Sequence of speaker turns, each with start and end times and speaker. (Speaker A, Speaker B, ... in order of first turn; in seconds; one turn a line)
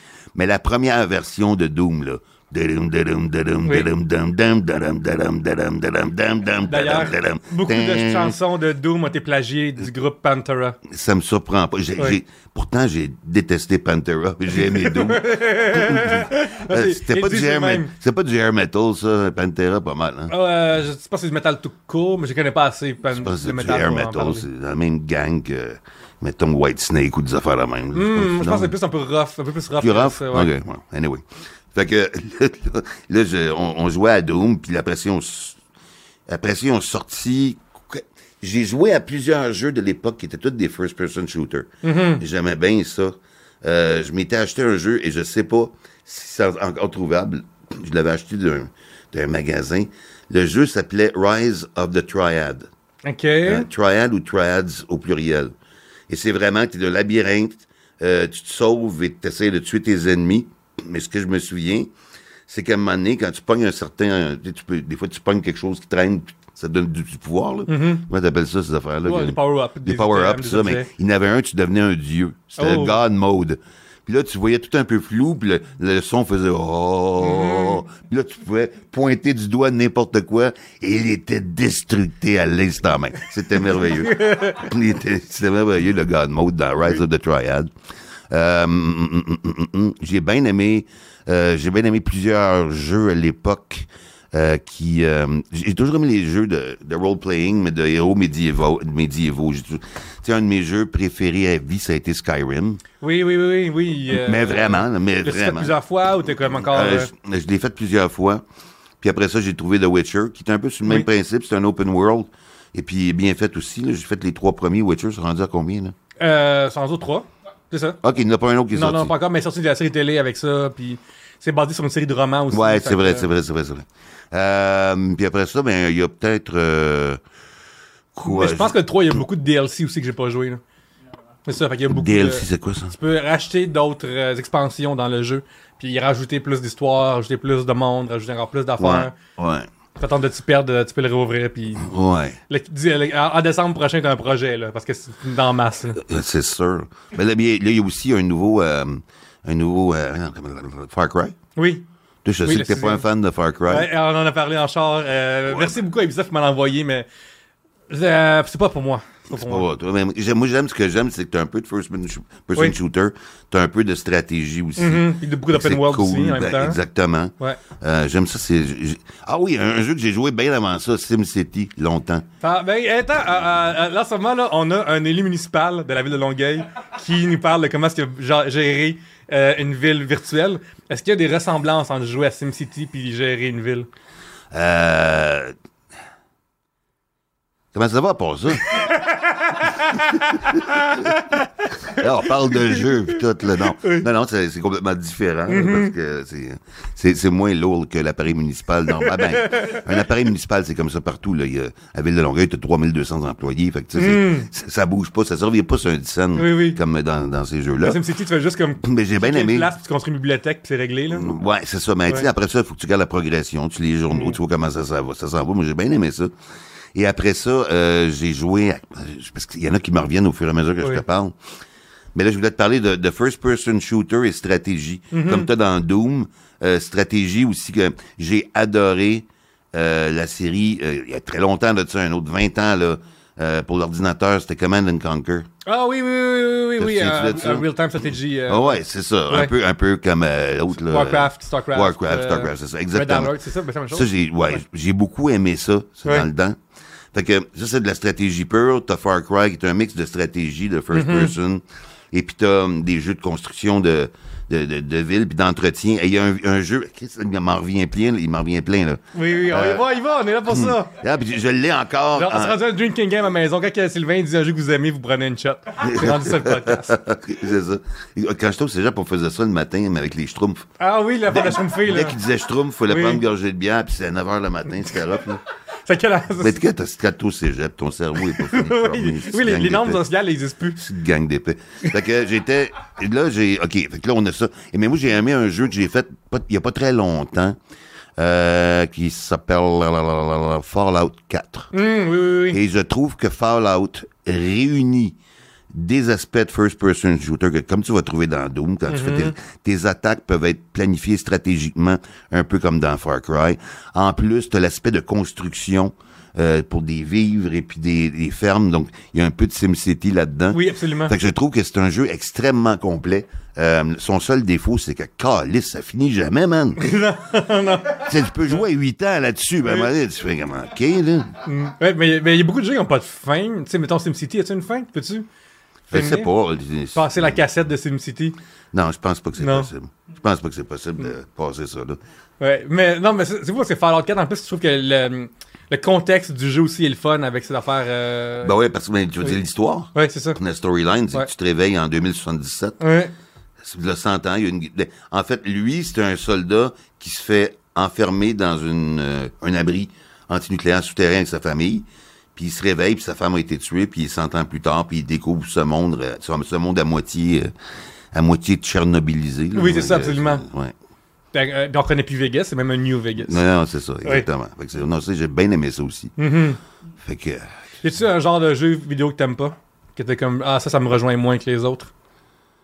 Speaker A: 0.3-8.3
Speaker B: 6.7-10.8
Speaker A: 10.9-20.3
Speaker B: 14.5-17.9
Speaker B: 20.3-24.4
Speaker A: 23.1-28.7
Speaker B: 27.9-30.5
Speaker A: 29.8-31.2
Speaker A: 31.7-35.6
Speaker A: 36.3-52.7
Speaker B: 41.8-42.2
Speaker B: 53.0-53.7
Speaker A: 53.5-55.5
Speaker A: 56.1-61.9
Speaker A: 62.5-87.7
Speaker B: 67.7-68.0
Speaker B: 69.0-70.9
Speaker B: 72.6-73.0
Speaker B: 77.2-77.8
Speaker B: 83.7-84.7
Speaker A: 88.3-102.8
Speaker B: 103.0-107.1
Speaker A: 104.1-105.7
Speaker A: 106.6-108.4
Speaker A: 109.0-115.9
Speaker B: 116.2-118.0
Speaker A: 118.0-119.1
Speaker B: 118.7-123.3
Speaker A: 122.5-127.2
Speaker A: 128.1-128.7
Speaker B: 128.2-130.6
Speaker B: 131.4-139.1
Speaker A: 131.9-132.9
Speaker A: 138.8-139.7
Speaker B: 140.0-141.8
Speaker A: 141.8-142.4
Speaker B: 142.5-146.0
Speaker A: 146.0-151.3
Speaker B: 151.6-151.8
Speaker A: 152.2-153.9
Speaker B: 152.4-153.0
Speaker B: 153.7-157.1
Speaker A: 155.5-155.8
Speaker B: 157.9-159.6
Speaker A: 159.3-172.2
Speaker B: 164.8-166.8
Speaker B: 172.4-183.9
Speaker A: 184.5-185.5
Speaker A: 187.7-188.8
Speaker B: 188.6-192.8
Speaker A: 191.9-208.0
Speaker B: 195.5-195.9
Speaker B: 199.0-199.8
Speaker B: 203.9-204.5
Speaker B: 206.3-206.8
Speaker B: 207.8-211.3
Speaker A: 208.8-209.7
Speaker A: 211.1-216.3
Speaker B: 214.1-214.4
Speaker A: 216.9-221.3
Speaker A: 222.1-235.5
Speaker B: 225.1-225.5
Speaker B: 235.7-239.5
Speaker A: 236.8-237.7
Speaker A: 238.5-243.3
Speaker B: 240.8-244.6
Speaker A: 243.9-246.6
Speaker A: 247.1-259.8
Speaker B: 250.9-251.3
Speaker B: 259.1-260.9
Speaker A: 260.5-262.6
Speaker B: 262.1-266.9
Speaker A: 265.8-270.7
Speaker B: 270.8-272.1
Speaker A: 271.3-275.4
Speaker B: 272.9-273.2
Speaker B: 275.9-276.6
Speaker A: 276.4-280.0
Speaker B: 278.2-280.8
Speaker A: 280.8-287.6
Speaker A: 288.2-291.7
Speaker B: 291.7-292.6
Speaker A: 292.5-295.1
Speaker A: 295.7-316.8
Speaker B: 298.9-299.3
Speaker B: 310.5-311.1
Speaker B: 316.8-318.1
Speaker A: 318.0-321.3
Speaker B: 321.4-325.3
Speaker B: 325.9-326.3
Speaker A: 325.9-327.4
Speaker B: 326.9-328.4
Speaker A: 328.7-332.0
Speaker B: 329.4-329.7
Speaker B: 332.4-338.5
Speaker A: 338.4-342.8
Speaker B: 339.9-340.4
Speaker B: 342.8-343.1
Speaker A: 343.6-357.5
Speaker A: 358.1-360.7
Speaker B: 359.5-360.4
Speaker B: 361.3-363.4
Speaker A: 363.2-366.1
Speaker B: 366.2-366.6
Speaker A: 367.0-367.5
Speaker B: 367.8-371.9